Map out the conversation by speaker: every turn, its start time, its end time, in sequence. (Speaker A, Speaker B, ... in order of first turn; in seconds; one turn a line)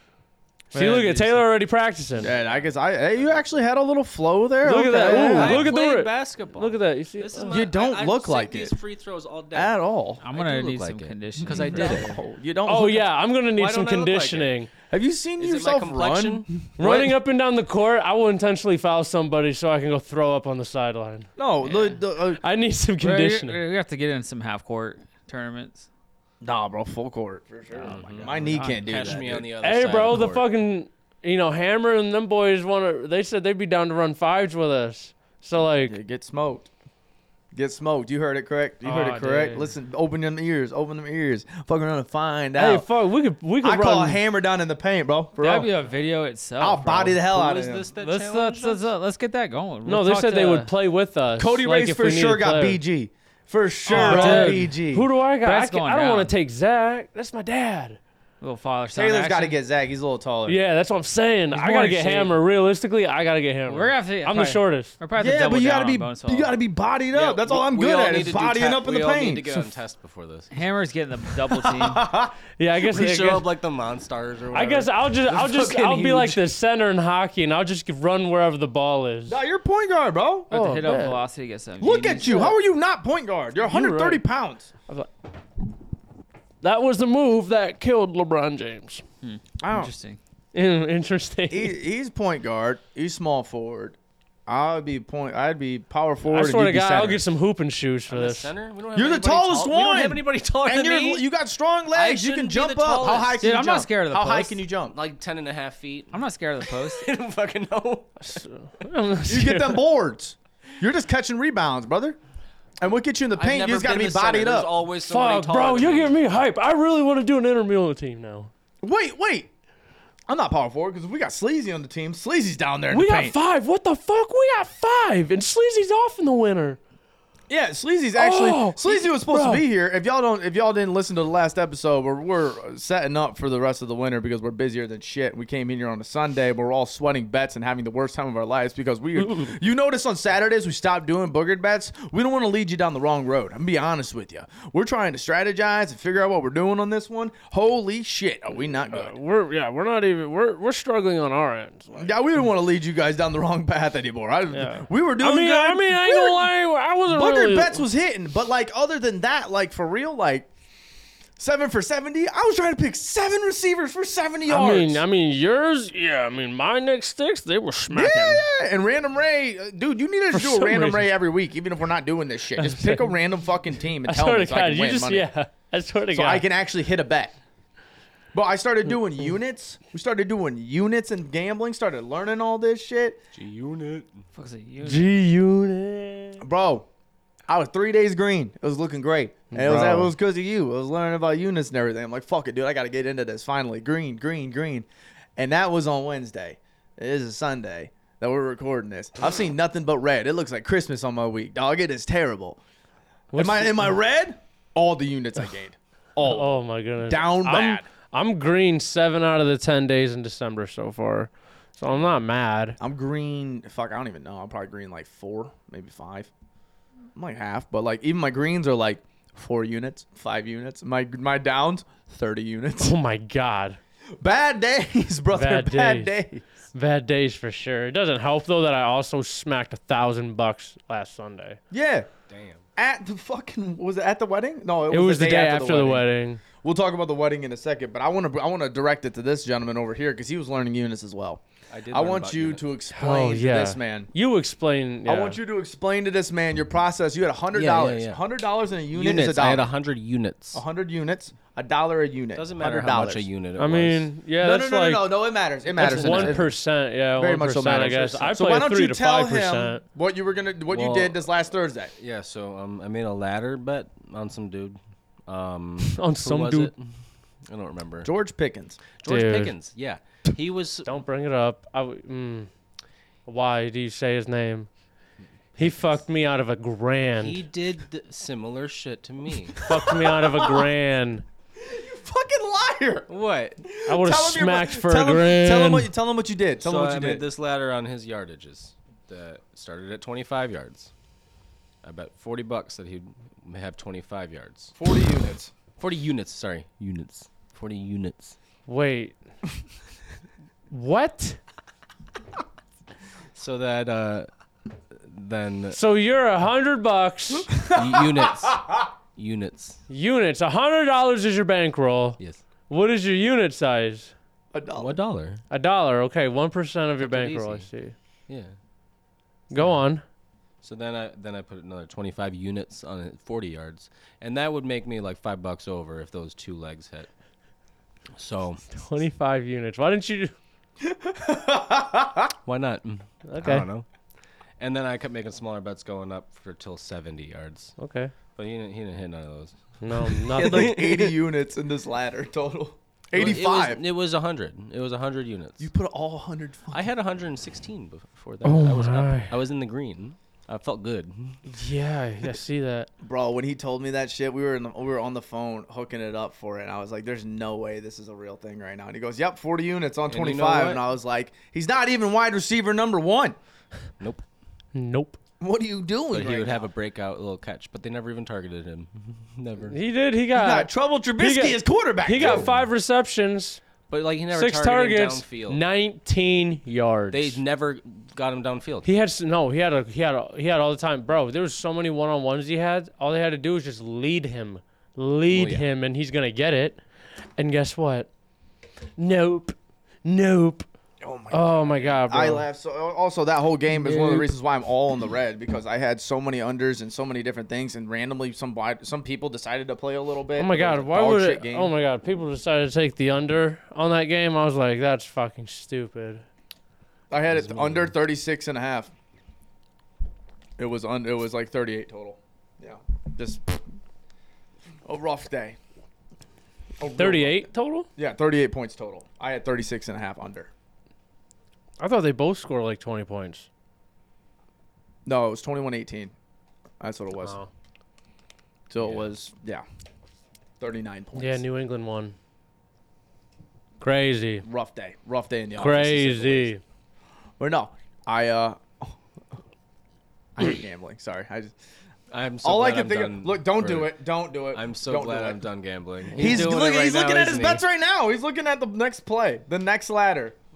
Speaker A: 0.7-1.4
Speaker B: 0.7-2.3
Speaker C: 2.2-3.6
Speaker D: 2.2-5.7
Speaker B: 4.6-7.5
Speaker C: 5.0-12.2
Speaker D: 7.5-8.7
Speaker D: 9.5-10.2
Speaker A: 10.2-12.1
Speaker D: 11.5-13.1
Speaker B: 12.7-14.7
Speaker C: 13.5-14.5
Speaker D: 14.9-16.7
Speaker C: 15.4-17.1
Speaker B: 16.8-21.3
Speaker D: 21.4-22.4
Speaker A: 21.6-22.0
Speaker B: 22.3-23.6
Speaker A: 23.0-25.9
Speaker D: 26.4-29.4
Speaker A: 27.7-29.2
Speaker C: 27.8-30.4
Speaker B: 29.6-36.0
Speaker D: 35.9-36.7
Speaker D: 37.5-42.9
Speaker A: 38.8-39.7
Speaker B: 42.5-44.2
Speaker D: 43.6-45.7
Speaker A: 45.4-47.2
Speaker D: 46.6-47.9
Speaker C: 47.3-48.9
Speaker A: 48.0-50.7
Speaker B: 49.9-52.8
Speaker D: 51.4-55.0
Speaker B: 53.9-58.0
Speaker A: 53.9-54.7
Speaker A: 55.4-56.3
Speaker A: 58.4-59.6
Speaker D: 58.9-60.6
Speaker B: 60.5-64.9
Speaker A: 61.5-62.3
Speaker A: 63.7-66.5
Speaker D: 65.2-69.6
Speaker C: 67.1-70.5
Speaker A: 70.5-72.0
Speaker D: 71.5-72.3
Speaker B: 72.6-73.5
Speaker C: 72.8-76.4
Speaker B: 74.5-79.4
Speaker D: 79.3-80.5
Speaker A: 80.5-82.5
Speaker B: 80.5-81.2
Speaker D: 81.8-84.7
Speaker B: 83.6-84.2
Speaker B: 86.6-89.0
Speaker A: 89.2-90.2
Speaker D: 89.6-89.9
Speaker B: 90.5-91.8
Speaker D: 91.5-97.2
Speaker B: 96.3-98.5
Speaker C: 98.1-101.2
Speaker D: 98.9-104.9
Speaker C: 101.9-103.4
Speaker A: 103.4-104.6
Speaker C: 104.9-108.1
Speaker A: 106.1-107.1
Speaker B: 108.2-109.8
Speaker D: 109.3-112.2
Speaker D: 112.8-114.7
Speaker C: 113.4-116.2
Speaker B: 115.0-118.5
Speaker D: 118.8-119.5
Speaker D: 120.3-123.3
Speaker B: 122.9-126.8
Speaker D: 127.5-149.1
Speaker B: 128.1-129.6
Speaker B: 148.9-152.1
Speaker D: 151.9-156.5
Speaker B: 154.5-157.8
Speaker D: 157.1-160.5
Speaker D: 161.4-165.0
Speaker B: 164.5-168.4
Speaker D: 167.9-175.2
Speaker B: 170.3-171.1
Speaker B: 172.6-173.1
Speaker B: 174.0-176.4
Speaker D: 176.1-177.3
Speaker D: 178.3-183.2
Speaker C: 183.3-184.2
Speaker A: 184.3-185.1
Speaker B: 184.8-186.4
Speaker D: 186.4-186.9
Speaker D: 187.5-194.8
Speaker B: 189.5-190.1
Speaker D: 195.4-202.6
Speaker B: 203.3-203.9
Speaker D: 203.3-207.8
Speaker B: 206.2-212.8
Speaker D: 212.8-216.3
Speaker D: 217.1-222.9
Speaker B: 222.8-223.8
Speaker D: 224.2-226.4
Speaker B: 225.3-226.1
Speaker B: 226.7-231.6
Speaker D: 231.7-232.1
Speaker C: 232.3-232.6
Speaker D: 232.8-236.1
Speaker B: 234.9-236.4
Speaker D: 236.6-244.1
Speaker C: 241.7-242.7
Speaker B: 242.9-245.4
Speaker D: 245.1-249.7
Speaker C: 247.5-248.2
Speaker C: 248.9-250.6
Speaker D: 250.5-253.2
Speaker C: 252.3-254.1
Speaker B: 253.6-255.1
Speaker D: 254.4-256.5
Speaker B: 255.8-259.8
Speaker C: 255.8-256.4
Speaker D: 257.2-261.9
Speaker C: 260.7-261.2
Speaker C: 262.0-268.1
Speaker B: 265.9-266.7
Speaker D: 268.0-268.8
Speaker C: 269.0-270.9
Speaker B: 269.0-269.5
Speaker B: 270.9-272.5
Speaker B: 273.2-274.7
Speaker B: 275.6-277.4
Speaker C: 277.2-279.6
Speaker D: 279.5-280.7
Speaker B: 279.6-281.2
Speaker D: 281.6-283.1
Speaker C: 283.1-283.6
Speaker D: 283.6-287.2
Speaker B: 283.9-285.9
Speaker C: 286.6-290.9
Speaker C: 291.8-294.7
Speaker D: 294.8-295.5
Speaker C: 295.8-298.4
Speaker B: 298.7-299.2
Speaker B: 300.7-301.4
Speaker C: 303.3-304.3
Speaker C: 304.9-305.8
Speaker B: 305.7-307.5
Speaker D: 307.5-308.8
Speaker C: 307.7-309.8
Speaker B: 309.9-314.1
Speaker D: 314.5-315.0
Speaker C: 314.8-315.4
Speaker B: 315.5-317.9
Speaker C: 317.0-317.7
Speaker C: 318.3-318.5
Speaker B: 319.5-320.0
Speaker C: 320.6-327.1
Speaker C: 328.2-328.6
Speaker B: 328.7-330.3
Speaker D: 330.8-332.3
Speaker C: 332.4-333.9
Speaker B: 333.2-333.6
Speaker C: 334.6-337.8
Speaker B: 337.8-338.1
Speaker C: 338.3-341.1
Speaker B: 339.8-340.8
Speaker D: 340.3-343.8
Speaker C: 343.1-345.7
Speaker D: 345.6-346.8
Speaker C: 346.7-351.4
Speaker B: 348.4-349.3
Speaker B: 351.5-352.9
Speaker D: 353.0-363.4
Speaker C: 360.1-360.8
Speaker B: 364.7-365.2
Speaker D: 365.4-366.6
Speaker C: 366.1-369.8
Speaker B: 369.7-373.6
Speaker D: 370.3-372.5
Speaker C: 372.1-372.7
Speaker C: 373.9-375.6
Speaker B: 374.3-377.4
Speaker C: 377.1-378.9
Speaker B: 378.8-386.8
Speaker C: 385.3-385.6
Speaker B: 387.4-388.1
Speaker B: 389.0-390.7
Speaker D: 391.0-401.7
Speaker B: 391.3-392.4
Speaker B: 393.7-394.3
Speaker B: 400.4-406.2
Speaker D: 407.1-408.9
Speaker C: 407.3-407.9
Speaker D: 410.6-413.6
Speaker D: 414.8-415.6
Speaker D: 416.8-420.5
Speaker B: 416.9-417.9
Speaker B: 421.8-423.5
Speaker D: 425.0-426.1
Speaker D: 426.8-427.4
Speaker B: 427.2-427.5
Speaker D: 428.7-429.6
Speaker C: 428.8-429.1
Speaker D: 430.6-431.4
Speaker B: 431.1-432.1
Speaker B: 433.8-434.4
Speaker D: 434.4-436.5
Speaker B: 435.6-436.6
Speaker D: 437.4-439.0
Speaker D: 440.4-441.5
Speaker C: 442.1-443.9
Speaker D: 442.4-445.4
Speaker C: 444.5-447.6
Speaker D: 446.1-450.4
Speaker B: 446.2-446.4